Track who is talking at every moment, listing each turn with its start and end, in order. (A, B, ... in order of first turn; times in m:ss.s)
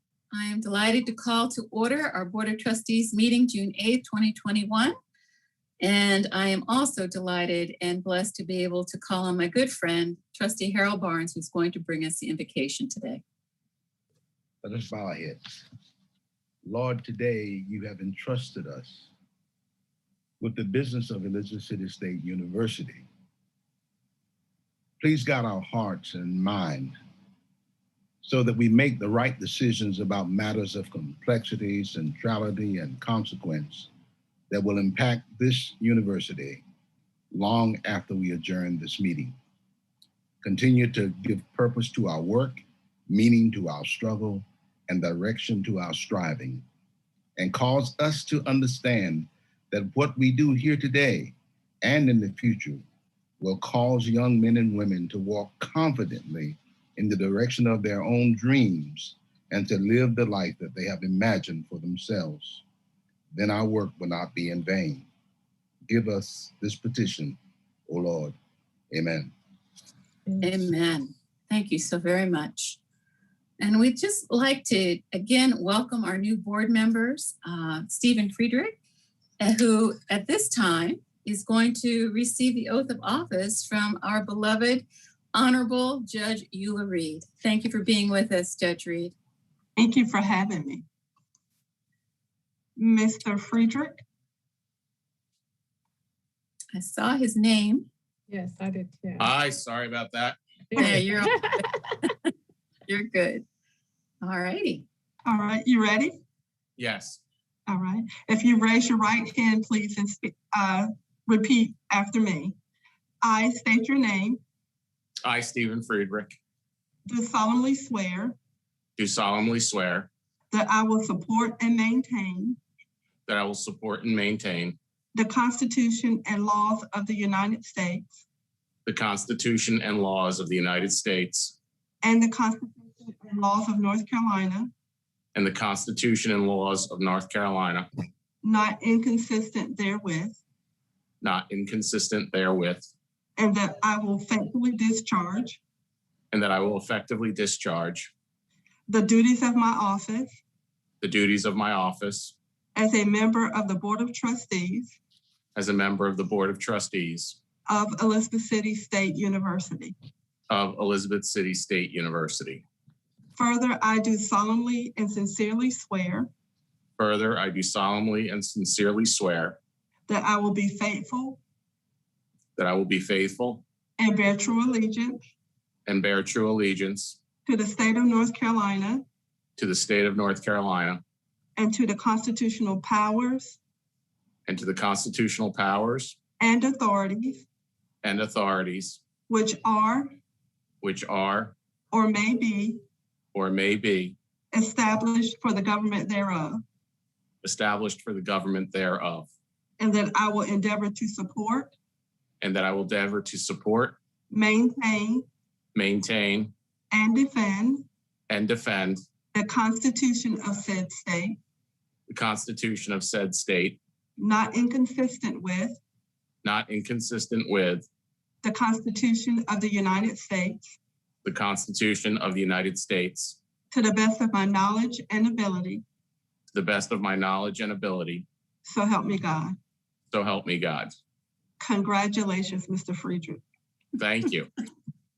0:00.3-0:04.9 A
0:05.8-0:13.2 A
0:14.6-0:15.6 B
0:16.6-0:19.1 B
0:20.4-0:23.0 B
0:25.0-0:27.0 B
0:28.2-0:33.9 B
0:34.5-0:36.6 B
0:37.3-0:39.3 B
0:40.4-0:46.6 B
0:47.4-0:52.8 B
0:53.4-1:02.6 B
1:03.3-1:05.0 B
1:05.9-1:08.3 B
1:08.9-1:09.3 B
1:10.4-1:12.8 A
1:13.6-1:18.8 A
1:19.4-1:29.1 A
1:29.8-1:30.8 C
1:32.8-1:34.0 C
1:36.7-1:37.9 A
1:38.3-1:39.3 D
1:39.2-1:40.4 E
1:40.7-1:41.7 D
1:40.7-1:41.0 C
1:40.8-1:42.1 A
1:42.9-1:43.4 A
1:44.2-1:44.8 A
1:45.2-1:46.1 C
1:46.8-1:47.2 E
1:47.7-1:52.5 C
1:53.2-1:54.4 C
1:55.2-1:56.4 E
1:57.0-1:58.4 C
1:59.0-2:00.1 E
2:00.5-2:02.6 C
2:03.3-2:04.8 E
2:05.1-2:08.2 C
2:08.8-2:11.6 E
2:12.0-2:14.7 C
2:15.3-2:17.9 E
2:18.4-2:20.4 C
2:21.2-2:22.9 E
2:23.4-2:25.6 C
2:26.3-2:28.1 E
2:28.9-2:30.3 C
2:31.0-2:32.3 E
2:32.7-2:34.9 C
2:35.5-2:37.4 E
2:37.7-2:39.9 C
2:40.5-2:42.6 E
2:43.4-2:46.3 C
2:47.0-2:49.6 E
2:50.1-2:51.4 C
2:52.6-2:53.6 E
2:54.0-2:55.2 C
2:55.8-2:57.2 E
2:57.4-2:59.0 C
2:59.6-3:01.0 E
3:01.6-3:03.6 C
3:04.4-3:06.2 E
3:06.4-3:07.4 C
3:08.0-3:09.0 E
3:09.3-3:10.1 C
3:10.8-3:11.5 E
3:11.9-3:12.8 C
3:13.3-3:14.2 E
3:14.5-3:16.6 C
3:17.4-3:19.3 E
3:19.8-3:21.7 C
3:22.4-3:24.0 E
3:24.3-3:25.2 C
3:25.7-3:26.5 E
3:26.9-3:27.8 C
3:28.3-3:29.0 E
3:29.3-3:31.4 C
3:32.1-3:33.8 E
3:34.2-3:35.8 C
3:36.4-3:37.9 E
3:38.4-3:40.6 C
3:41.2-3:43.4 E
3:43.7-3:45.8 C
3:46.5-3:48.2 E
3:48.6-3:49.6 C
3:50.1-3:50.9 E
3:51.6-3:53.4 C
3:54.0-3:54.5 E